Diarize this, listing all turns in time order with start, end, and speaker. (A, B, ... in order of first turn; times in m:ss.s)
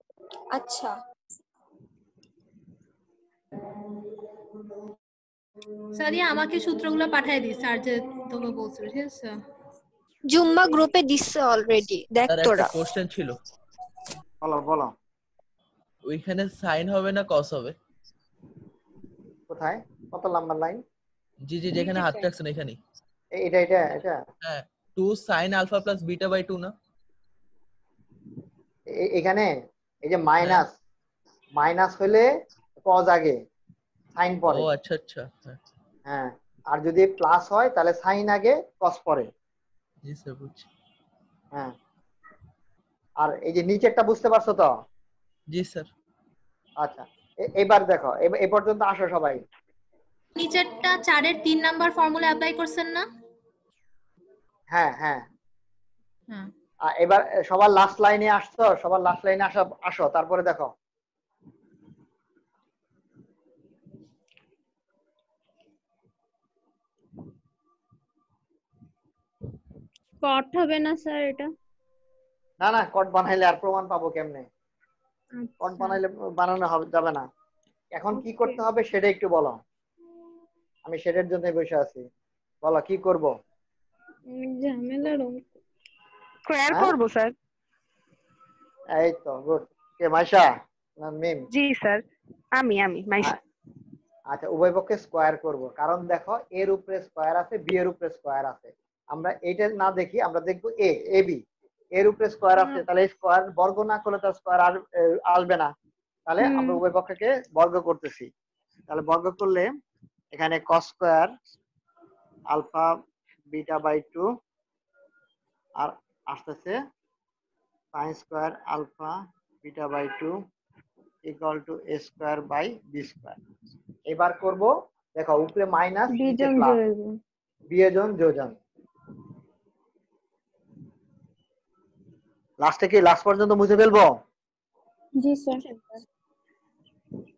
0:00.5-0:00.9 A
0:06.0-0:09.3 B
0:10.3-0:12.7 A
0:12.3-0:13.4 C
0:14.4-0:14.9 D
0:16.1-0:17.8 C
0:19.5-0:20.8 D
0:21.4-0:22.8 C
0:23.4-0:24.2 D
0:24.4-0:26.7 C
0:29.0-0:29.5 D
0:30.1-0:30.8 D
0:31.6-0:32.3 D
0:32.8-0:33.4 D
0:34.2-0:34.7 D
0:34.5-0:35.6 C
0:36.1-0:39.3 D
0:40.0-0:40.7 C
0:43.2-0:44.7 D
0:45.5-0:45.9 C
0:46.8-0:49.4 D
0:50.4-0:53.0 B
0:54.7-0:55.2 D
0:57.0-1:00.7 D
1:10.2-1:11.5 E
1:12.6-1:14.5 D
1:15.4-1:16.0 E
1:15.6-1:17.3 D
1:18.0-1:19.6 D
1:18.1-1:18.6 E
1:20.9-1:22.0 D
1:22.6-1:23.3 D
1:24.3-1:25.5 E
1:26.5-1:27.3 F
1:29.0-1:30.5 D
1:31.0-1:31.5 D
1:31.5-1:32.0 F
1:32.6-1:33.3 F
1:34.3-1:41.4 D
1:42.0-1:45.7 D
1:46.3-1:48.3 D
1:46.4-1:46.8 E
1:48.9-1:49.7 D
1:50.3-1:51.3 D
1:52.5-1:52.9 D
1:53.5-1:54.3 D
1:55.8-1:56.8 D
1:57.9-2:00.4 D
2:01.3-2:03.4 D
2:04.1-2:06.8 D
2:06.1-2:07.2 E
2:07.7-2:08.6 D
2:12.6-2:14.1 D
2:15.2-2:16.0 E